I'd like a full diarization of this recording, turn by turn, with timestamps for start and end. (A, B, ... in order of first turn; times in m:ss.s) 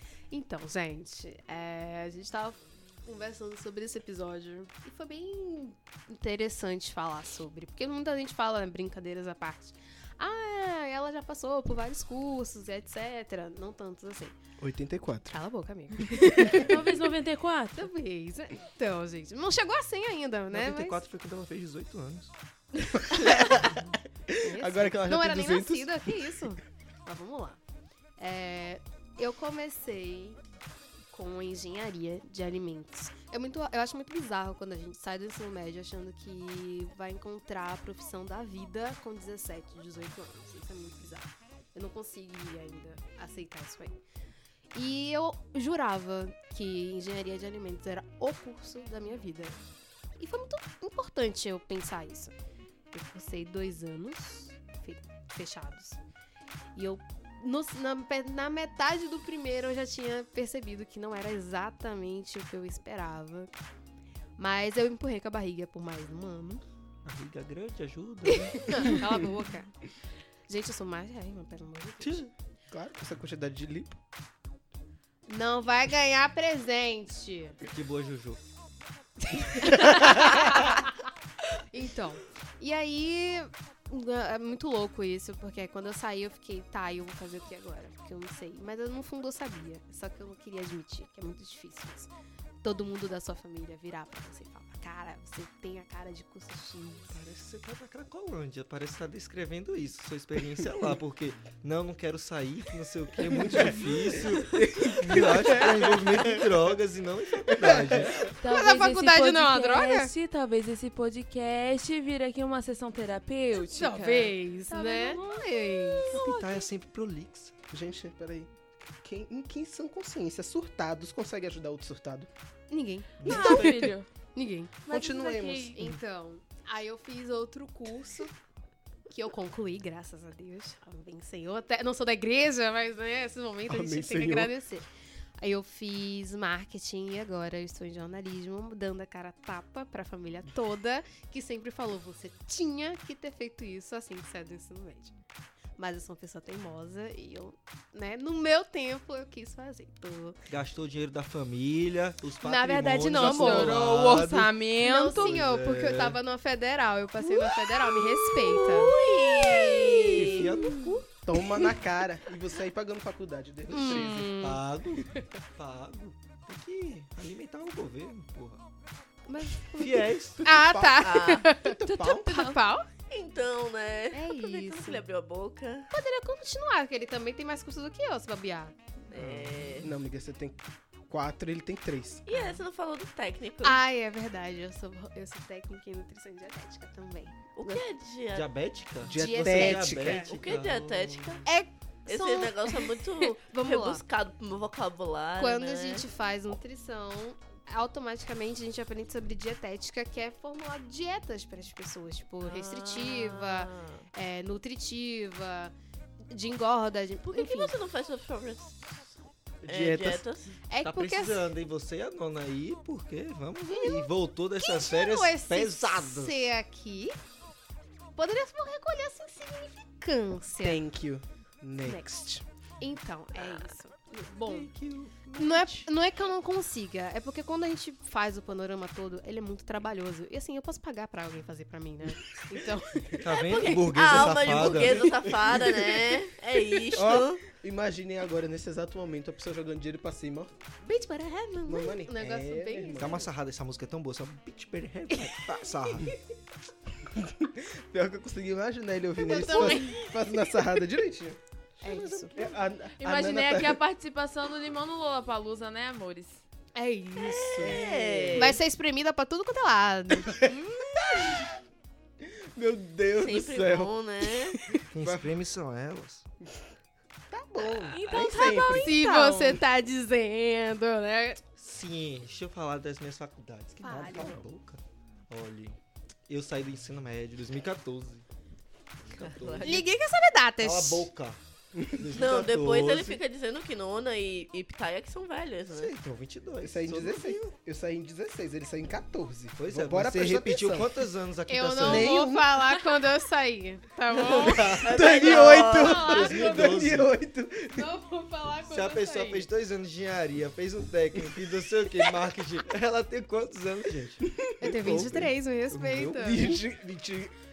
0:00.3-0:14.4 A
0:14.6-0:15.4 B
0:15.3-0:17.1 A
0:16.5-0:17.9 C
0:17.8-0:21.0 A
0:20.5-0:22.3 D
0:22.9-0:26.3 B
0:24.4-0:27.6 A
0:28.2-0:30.4 A
0:31.1-0:44.0 A
0:44.7-0:49.6 A
0:50.2-0:52.3 A
0:52.9-0:56.0 A
0:56.8-1:03.5 A
1:04.4-1:06.6 A
1:07.0-1:09.0 D
1:08.3-1:09.8 A
1:10.5-1:12.3 A
1:12.0-1:12.3 D
1:12.7-1:14.0 B
1:15.3-1:17.6 A
1:17.6-1:18.4 D
1:19.2-1:20.9 A
1:21.6-1:32.1 A
1:32.6-1:37.2 A
1:37.1-1:48.3 D
1:43.3-1:46.5 B
1:47.5-1:48.3 B
1:48.4-1:56.5 C
1:48.5-1:50.1 A
1:53.6-1:56.3 A
1:56.1-1:57.6 D
1:57.7-2:02.3 B
2:02.7-2:04.9 A
2:03.2-2:03.9 D
2:03.2-2:04.1 C
2:04.9-2:05.8 C
2:04.9-2:05.8 B
2:05.7-2:08.3 A
2:09.1-2:14.9 A
2:13.7-2:14.5 B
2:15.4-2:25.1 A
2:25.8-2:30.4 A
2:30.5-2:34.6 D
2:32.4-2:33.9 A
2:33.1-2:35.2 C
2:34.8-2:41.7 A
2:35.1-2:36.2 D
2:37.8-2:40.6 E
2:40.1-2:41.0 D
2:41.2-2:44.3 B
2:43.7-2:44.6 A
2:43.7-2:48.6 D
2:49.3-2:52.9 A
2:49.7-2:50.4 D
2:50.4-2:52.5 B
2:51.0-2:51.5 E
2:51.9-2:52.6 C
2:53.1-2:55.9 E
2:54.1-2:55.0 A
2:55.9-2:58.8 A
2:59.1-2:59.9 E
2:59.1-2:59.9 D
2:59.8-3:02.2 B
3:02.3-3:03.8 E
3:02.3-3:02.6 A
3:03.6-3:07.8 A
3:07.6-3:08.5 E
3:08.3-3:11.5 D
3:09.0-3:10.4 A
3:09.1-3:10.3 B
3:10.3-3:11.5 E
3:11.5-3:14.0 A
3:12.1-3:16.1 E
3:15.4-3:25.7 A
3:22.4-3:24.1 E
3:26.3-3:27.7 A
3:27.2-3:30.6 E
3:29.6-3:30.1 B
3:29.9-3:30.2 D
3:30.7-3:31.5 A
3:30.8-3:36.4 D
3:33.7-3:34.1 A
3:34.6-3:37.2 A
3:38.2-3:40.8 A
3:40.6-3:42.4 B
3:41.8-3:42.3 A
3:42.8-3:44.7 A
3:44.4-3:45.9 D
3:45.4-3:54.0 A
3:53.2-3:55.2 D
3:53.6-3:57.4 E
3:57.0-4:00.5 B
4:00.8-4:03.3 A
4:01.7-4:03.3 B
4:03.0-4:06.1 D
4:05.1-4:05.5 A
4:07.1-4:13.8 B
4:09.2-4:10.6 A
4:11.8-4:12.5 A
4:13.0-4:16.4 C
4:16.8-4:17.8 A
4:17.3-4:18.6 B
4:17.6-4:18.6 E
4:18.3-4:21.4 A
4:20.3-4:21.5 B
4:22.2-4:25.3 B
4:23.2-4:24.6 E
4:24.9-4:26.2 D
4:27.3-4:29.0 B
4:27.7-4:28.2 E
4:27.9-4:29.6 C
4:28.8-4:31.4 A
4:31.6-4:38.3 D
4:33.8-4:34.4 A
4:39.0-4:39.9 D
4:39.2-4:39.9 E
4:39.6-4:41.1 A
4:40.6-4:41.4 D
4:41.9-4:43.2 D
4:42.1-4:45.9 E
4:45.7-4:47.5 D
4:46.6-4:51.0 B
4:49.6-4:52.2 D
4:51.5-4:56.8 A
4:51.8-4:52.5 B
4:54.1-4:56.1 E
4:54.2-4:57.1 D
4:54.8-4:57.9 B
4:57.7-4:59.5 A
4:58.7-5:04.2 D
5:04.2-5:05.2 B
5:04.6-5:06.6 A
5:04.8-5:06.1 D
5:05.8-5:07.3 B